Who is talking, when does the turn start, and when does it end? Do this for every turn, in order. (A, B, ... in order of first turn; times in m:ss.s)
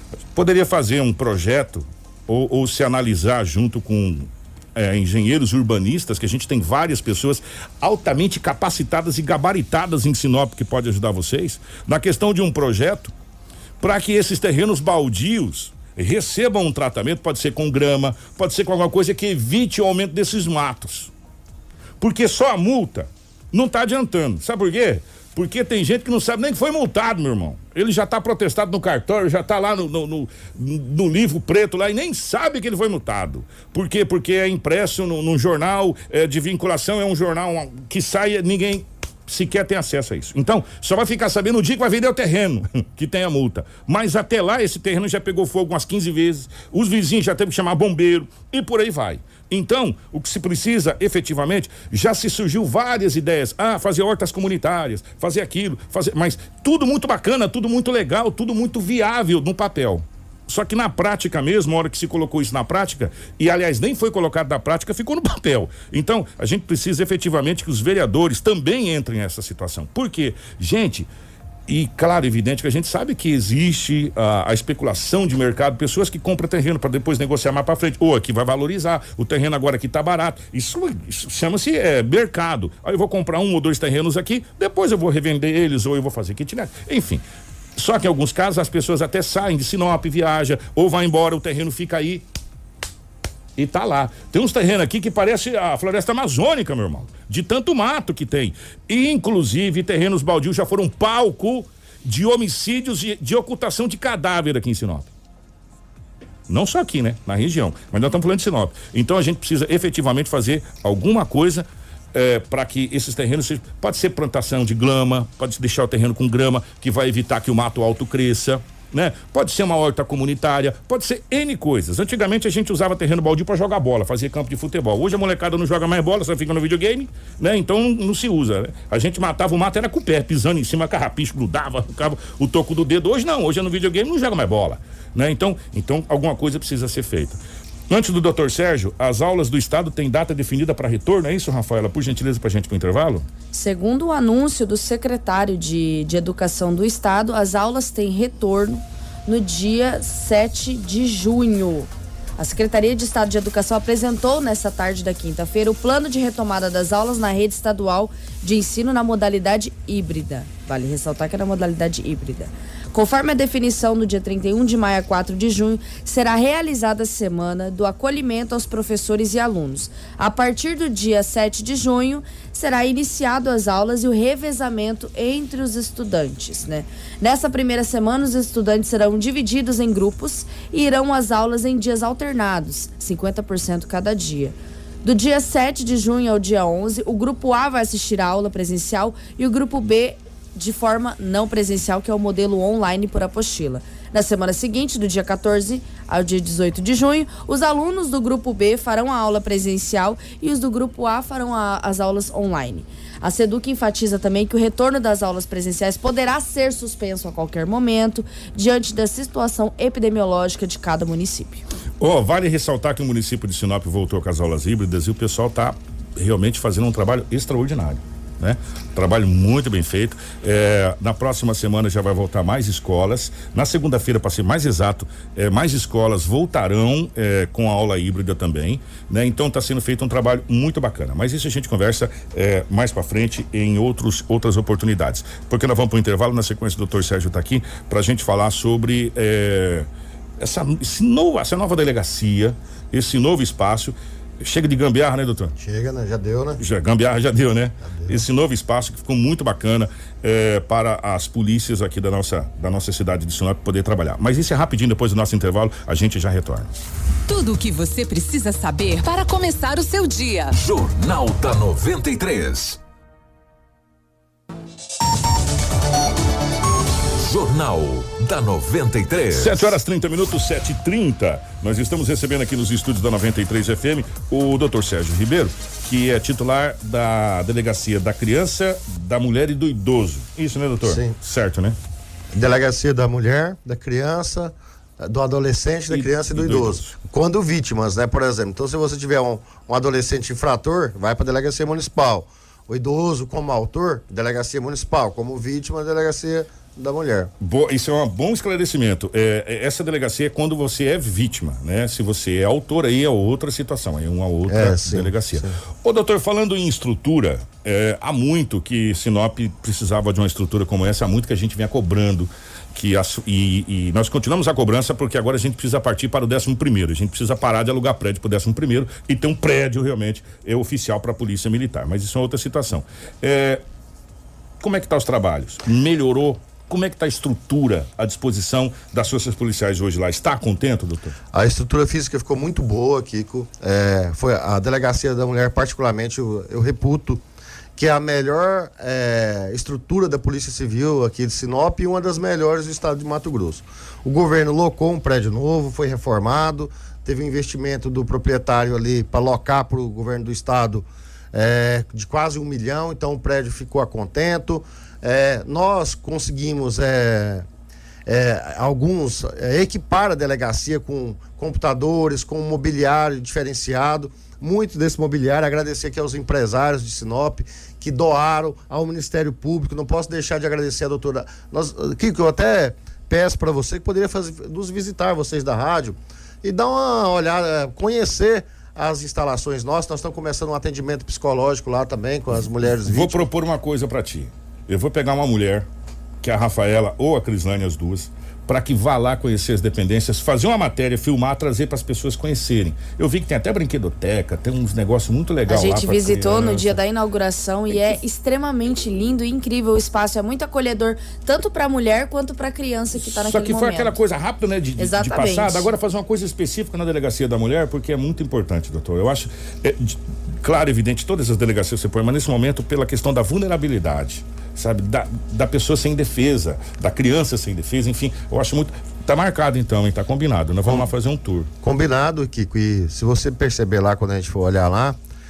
0:00.3-0:13.1 A
0:13.8-0:21.1 A
0:22.0-1:11.1 A
1:11.7-1:27.2 A
1:27.8-1:32.2 A
1:33.6-1:45.1 A
1:46.5-2:23.3 A
2:23.5-3:31.6 B
3:32.0-3:59.9 A
4:00.4-4:05.5 A
4:05.6-4:06.6 C
4:06.6-4:16.8 A
4:07.8-4:08.2 C
4:17.3-4:20.5 D
4:20.6-4:22.8 E
4:27.2-4:29.8 E
4:29.3-4:41.8 A
4:40.8-4:41.2 C
4:42.3-4:57.3 C
4:45.9-4:47.0 A
4:57.4-5:23.6 A
5:04.5-5:05.6 C
5:24.6-5:31.2 A
5:31.3-5:37.2 C
5:37.8-5:57.5 C
5:58.1-6:23.2 C
6:22.8-6:25.7 A
6:26.2-6:36.8 A
6:35.5-6:44.0 B
6:43.0-7:01.5 A
6:44.8-6:45.7 B
7:01.6-7:05.0 C